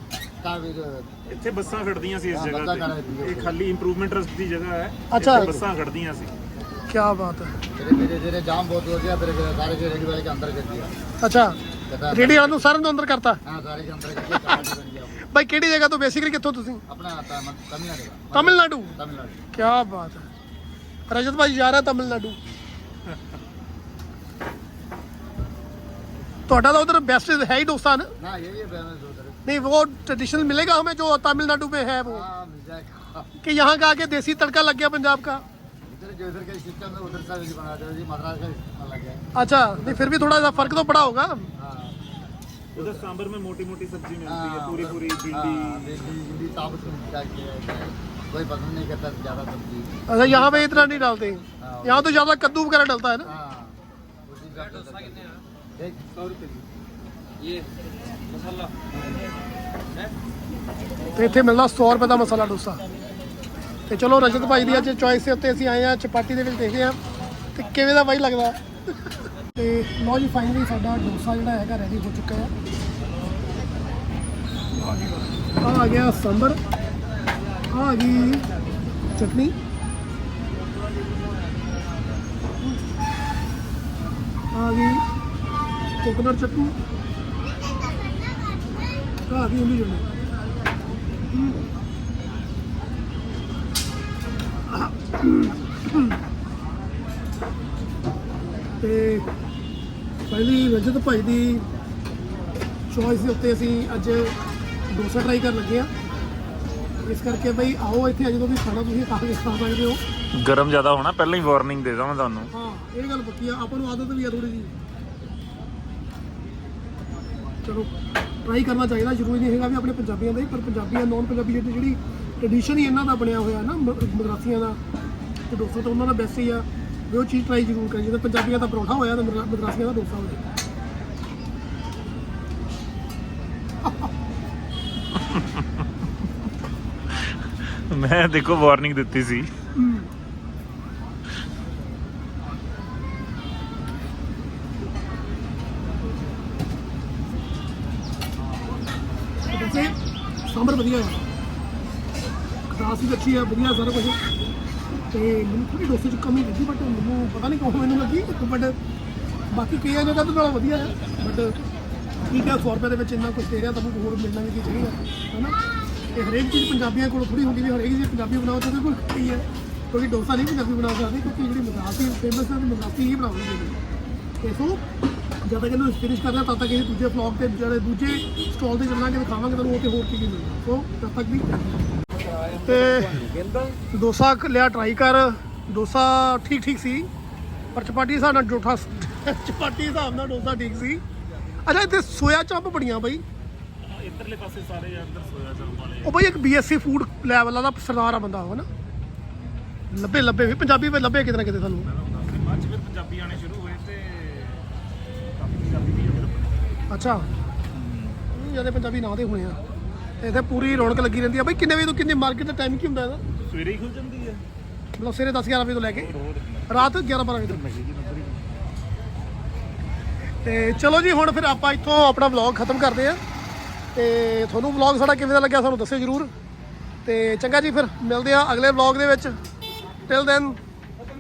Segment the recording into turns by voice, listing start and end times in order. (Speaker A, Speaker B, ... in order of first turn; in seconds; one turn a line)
Speaker A: 0.4-1.2
Speaker B: 1.3-6.3
Speaker A: 2.3-3.5
Speaker C: 5.1-5.5
Speaker C: 6.9-7.6
Speaker A: 7.8-10.9
Speaker C: 11.2-11.6
Speaker A: 11.9-12.3
Speaker C: 12.1-13.4
Speaker B: 12.2-12.7
Speaker A: 13.4-15.3
Speaker C: 15.3-16.8
Speaker A: 16.9-19.4
Speaker C: 18.3-19.0
Speaker C: 19.5-20.2
Speaker C: 21.1-22.4
Speaker C: 26.5-28.1
Speaker A: 28.2-29.4
Speaker C: 29.5-32.2
Speaker A: 32.1-33.3
Speaker C: 33.4-35.4
Speaker A: 35.9-40.5
Speaker C: 39.4-41.5
Speaker A: 41.6-42.0
Speaker A: 42.8-43.0
Speaker B: 42.8-46.1
Speaker A: 44.2-51.0
Speaker C: 50.1-53.3
Speaker A: 51.6-52.2
Speaker A: 53.2-56.0
Speaker C: 61.1-62.8
Speaker C: 63.9-67.0
Speaker C: 67.5-72.5
Speaker C: 75.6-76.6
Speaker C: 77.7-78.5
Speaker C: 79.2-79.5
Speaker C: 84.5-85.0
Speaker C: 86.0-86.7
Speaker C: 89.3-90.1
Speaker C: 94.8-96.1
Speaker C: 98.8-99.3
Speaker C: 100.3-101.7
Speaker C: 102.9-104.3
Speaker C: 104.9-105.9
Speaker C: 107.0-110.0
Speaker B: 110.4-112.5
Speaker C: 112.5-114.7
Speaker C: 117.7-117.9
Speaker C: 118.4-124.8
Speaker C: 125.5-130.4
Speaker B: 135.2-135.8
Speaker B: 137.4-139.5
Speaker C: 139.8-140.1
Speaker C: 149.5-149.9
Speaker C: 150.5-151.2
Speaker C: 152.7-154.2
Speaker C: 155.1-158.8
Speaker C: 159.5-161.6
Speaker C: 162.3-165.6
Speaker C: 166.2-173.8
Speaker C: 174.4-174.8
Speaker C: 175.4-181.5
Speaker B: 182.3-183.8
Speaker C: 182.7-183.2
Speaker C: 183.9-187.1
Speaker C: 187.8-191.0
Speaker C: 191.7-193.2
Speaker B: 193.8-196.2
Speaker C: 196.1-198.7
Speaker B: 199.3-199.8
Speaker C: 199.9-201.9
Speaker B: 201.8-204.7
Speaker B: 205.4-206.6
Speaker C: 206.9-207.3
Speaker B: 207.7-208.2
Speaker C: 208.3-209.6
Speaker C: 210.2-213.2
Speaker B: 213.4-214.4
Speaker C: 215.0-216.1
Speaker B: 215.8-218.6
Speaker C: 216.7-217.6
Speaker C: 220.4-223.2
Speaker C: 223.9-226.3
Speaker C: 227.1-229.3
Speaker C: 230.1-230.6